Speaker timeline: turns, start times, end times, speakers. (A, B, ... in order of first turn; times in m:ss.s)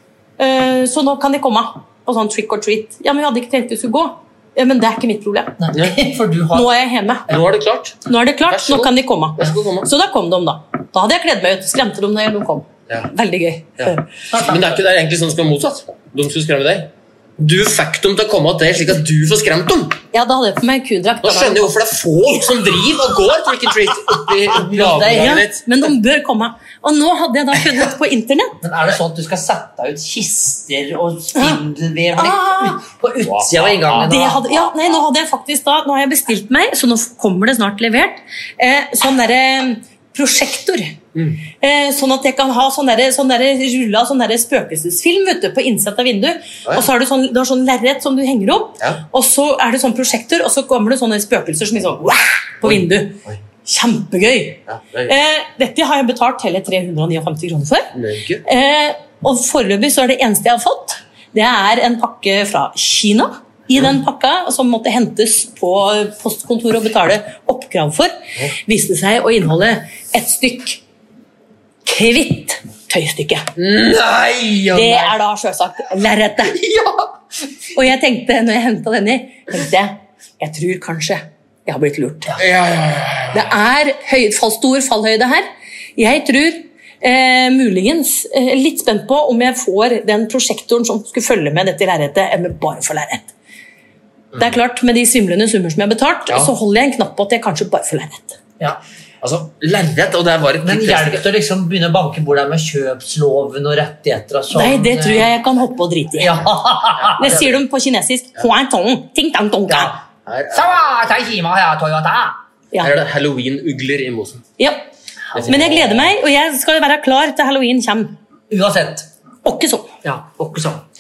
0:00.4-0:05.6 A
0:05.6-0:06.7 B
0:06.5-0:07.3 A
0:07.3-0:09.9 C
0:08.1-0:14.1 A
0:13.8-0:20.0 C
0:14.3-0:14.7 B
0:20.1-0:21.8 A
0:21.2-0:25.9 C
0:24.5-0:25.5 B
0:25.1-0:28.6 A
0:28.6-0:34.4 B
0:32.2-0:32.8 A
0:33.2-0:34.2 C
0:34.1-0:41.0 A
0:41.2-0:41.4 C
0:41.6-0:57.9 A
0:52.6-0:53.4 C
0:54.7-0:55.1 C
0:57.9-0:58.4 C
0:58.4-1:10.8 A
1:11.9-1:13.5 A
1:13.6-1:15.2 C
1:14.7-1:16.6 A
1:16.6-1:17.1 C
1:17.7-1:22.4 A
1:22.4-1:23.5 C
1:23.3-1:33.3 A
1:34.4-1:38.4 A
1:39.2-1:41.2 C
1:40.6-1:45.3 B
1:44.5-1:46.4 A
1:46.2-1:47.4 B
1:47.0-1:47.5 C
1:47.2-1:50.0 A
1:49.7-1:50.0 B
1:50.3-1:50.7 C
1:50.5-1:52.4 B
1:52.8-1:54.5 C
1:54.6-1:54.9 A
1:55.3-1:56.1 C
1:55.5-1:58.2 A
1:58.5-1:59.1 B
1:59.4-1:59.9 A
2:00.0-2:00.8 B